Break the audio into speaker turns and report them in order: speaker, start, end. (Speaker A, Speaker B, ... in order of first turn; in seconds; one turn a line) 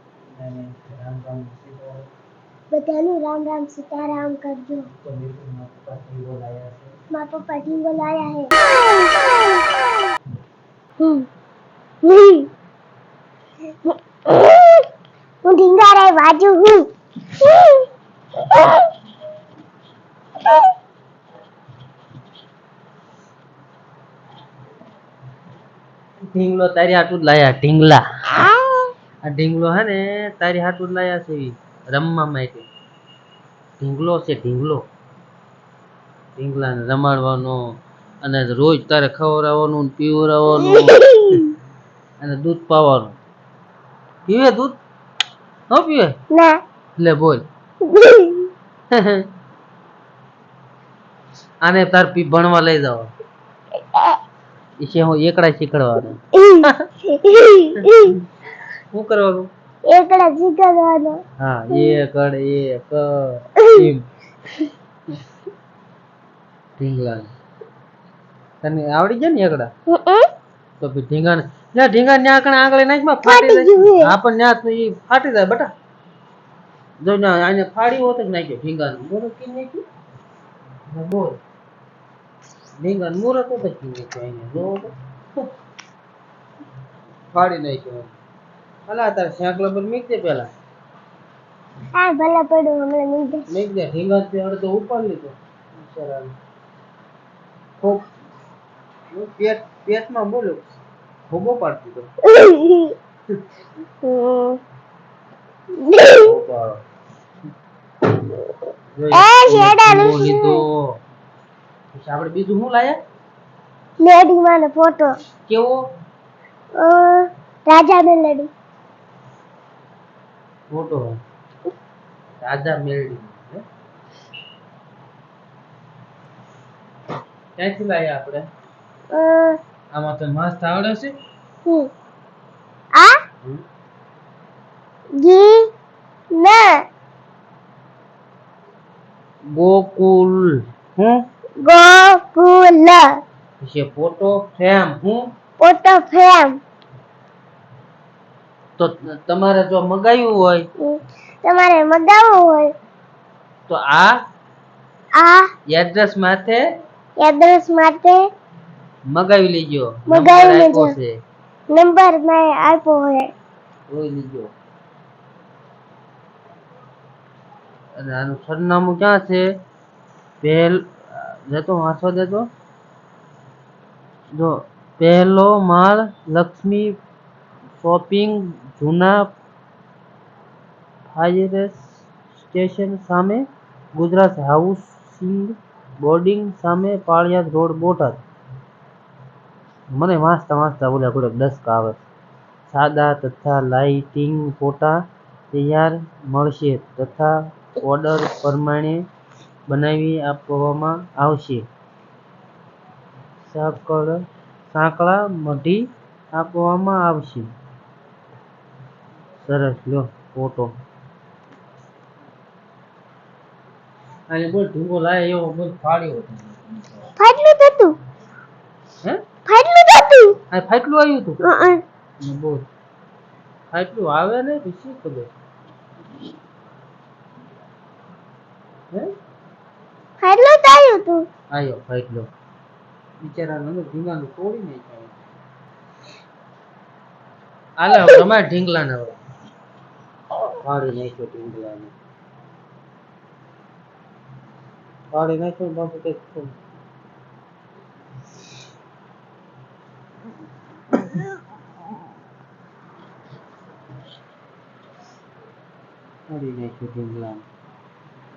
Speaker A: 0.4-2.1
Speaker B: 2.7-4.9
Speaker A: 5.0-6.9
Speaker B: 7.1-8.5
Speaker B: 11.0-11.3
Speaker B: 12.0-12.5
Speaker B: 13.8-14.9
Speaker B: 15.4-18.9
Speaker A: 26.3-28.1
Speaker B: 28.3-28.9
Speaker A: 29.2-32.7
Speaker A: 33.8-34.9
Speaker A: 36.4-41.4
Speaker B: 40.6-41.5
Speaker A: 42.2-43.2
Speaker A: 44.3-44.8
Speaker A: 45.7-46.2
Speaker B: 46.3-46.6
Speaker A: 47.0-47.5
Speaker B: 47.9-48.5
Speaker A: 48.9-49.3
Speaker A: 51.6-53.1
Speaker A: 54.8-56.9
Speaker B: 56.3-58.2
Speaker A: 57.8-58.2
Speaker A: 58.9-59.5
Speaker B: 59.9-61.2
Speaker A: 61.4-64.1
Speaker B: 63.6-63.9
Speaker A: 66.8-67.3
Speaker A: 68.6-69.7
Speaker B: 69.9-70.3
Speaker A: 70.8-75.7
Speaker B: 73.2-74.1
Speaker A: 77.0-79.8
Speaker A: 80.9-81.4
Speaker A: 82.8-85.5
Speaker A: 87.3-88.1
Speaker A: 88.9-90.5
Speaker B: 92.0-93.5
Speaker A: 93.5-96.3
Speaker A: 97.8-98.1
Speaker A: 99.1-100.7
Speaker A: 101.3-102.1
Speaker B: 102.2-103.0
Speaker B: 104.0-104.6
Speaker B: 105.8-106.3
Speaker A: 106.2-106.8
Speaker A: 109.0-111.0
Speaker B: 109.1-110.6
Speaker A: 111.9-113.0
Speaker B: 114.0-115.2
Speaker A: 115.5-115.8
Speaker B: 116.8-118.5
Speaker A: 120.7-121.2
Speaker A: 122.4-123.6
Speaker A: 127.6-128.5
Speaker B: 129.1-129.6
Speaker A: 129.9-131.2
Speaker B: 131.7-131.9
Speaker B: 135.2-135.7
Speaker B: 136.3-136.8
Speaker A: 139.5-141.2
Speaker B: 141.6-143.2
Speaker A: 143.6-145.3
Speaker B: 145.6-146.6
Speaker A: 148.8-150.7
Speaker B: 150.8-152.7
Speaker A: 153.7-154.2
Speaker B: 155.2-155.5
Speaker A: 155.7-156.7
Speaker B: 157.2-158.3
Speaker A: 159.1-161.2
Speaker B: 160.1-160.9
Speaker B: 161.7-163.3
Speaker A: 163.9-164.5
Speaker A: 168.0-169.5
Speaker A: 170.4-172.5
Speaker A: 174.3-177.0
Speaker A: 177.8-179.3
Speaker A: 181.1-188.2
Speaker A: 189.9-192.0
Speaker A: 192.7-195.0
Speaker A: 195.5-199.1
Speaker A: 199.7-201.7
Speaker A: 203.4-207.5
Speaker A: 209.4-210.8
Speaker A: 214.3-216.8
Speaker B: 217.2-218.0
Speaker B: 219.5-220.4
Speaker A: 220.5-221.4
Speaker B: 221.4-221.8
Speaker A: 222.2-222.7
Speaker A: 223.7-225.3
Speaker B: 230.2-231.3
Speaker A: 231.5-232.3
Speaker A: 233.2-235.2
Speaker A: 237.8-239.2
Speaker B: 237.9-238.2
Speaker A: 240.6-241.9
Speaker A: 245.1-246.5
Speaker A: 256.3-257.4